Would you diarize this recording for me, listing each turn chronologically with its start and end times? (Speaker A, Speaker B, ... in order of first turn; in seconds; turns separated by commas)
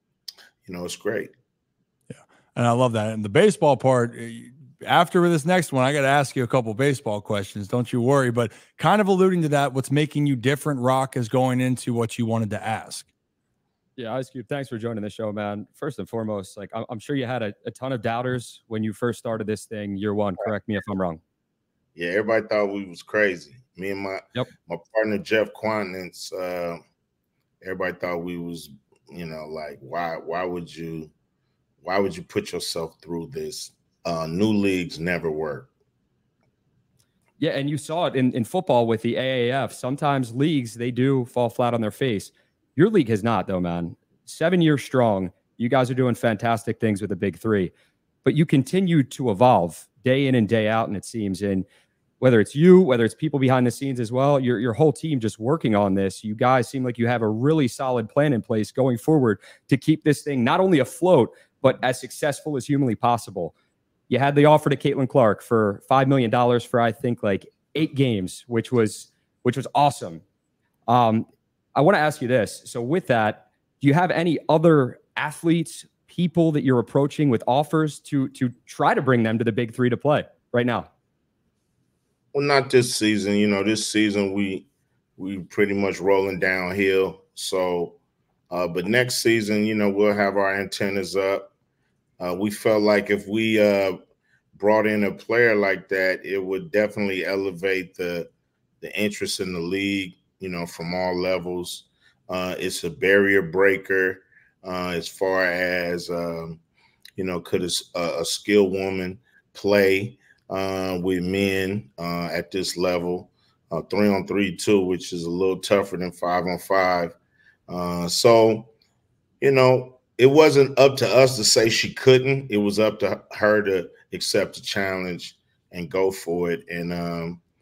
Speaker A: 0.6-1.3, Speaker B: 2.1-13.1, Speaker C: 14.0-21.2, Speaker A: 21.9-26.8, Speaker A: 27.6-31.1, Speaker A: 31.8-35.7, Speaker C: 37.4-47.7, Speaker C: 48.2-51.6, Speaker C: 52.2-63.5, Speaker C: 64.1-70.2, Speaker C: 70.9-80.9, Speaker A: 82.3-88.0, Speaker A: 88.5-91.5, Speaker A: 92.2-94.0, Speaker A: 94.5-98.3, Speaker A: 98.8-106.6, Speaker A: 107.2-117.2, Speaker A: 117.7-118.7, Speaker A: 119.4-127.4